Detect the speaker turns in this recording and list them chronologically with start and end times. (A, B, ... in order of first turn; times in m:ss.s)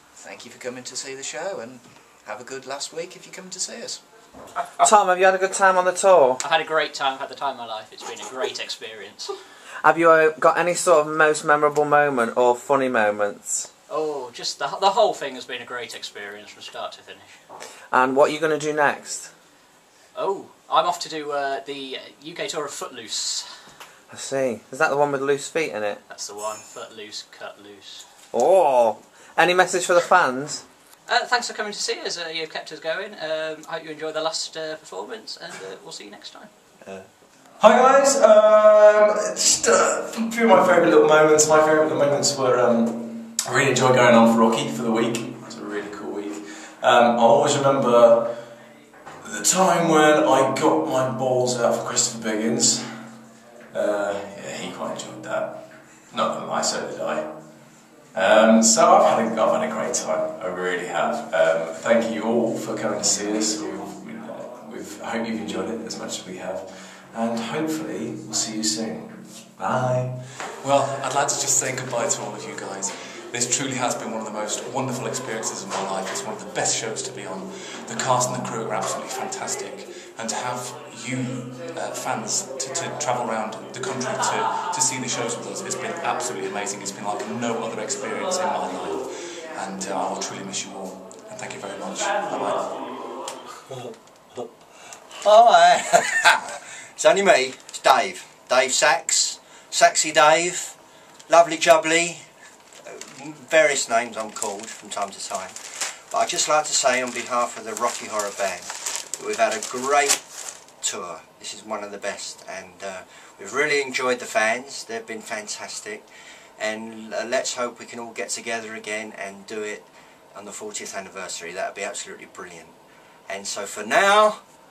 0:00.2-0:04.0 A
0:04.8-0:06.4 B
0:06.4-0:09.3 C
0:09.8-0:13.7 B
0:13.9-0:17.4 C
0:17.9-0:19.3 B
0:20.1-0:23.5 C
0:24.1-0:26.0 B
0:26.1-0:28.0 C
0:28.3-0:30.6 B
0:31.1-0:36.5 C
0:37.6-0:48.4 D
0:49.2-0:52.8 D
0:53.7-0:55.5 D
0:56.1-0:57.2 D
0:58.1-1:10.1 D
1:10.4-1:32.8 E
1:35.1-1:40.8 F
1:41.3-1:42.2 F
1:42.8-1:50.2 F
1:50.8-1:56.0 F
1:56.6-2:02.7 F
2:03.3-2:04.4 F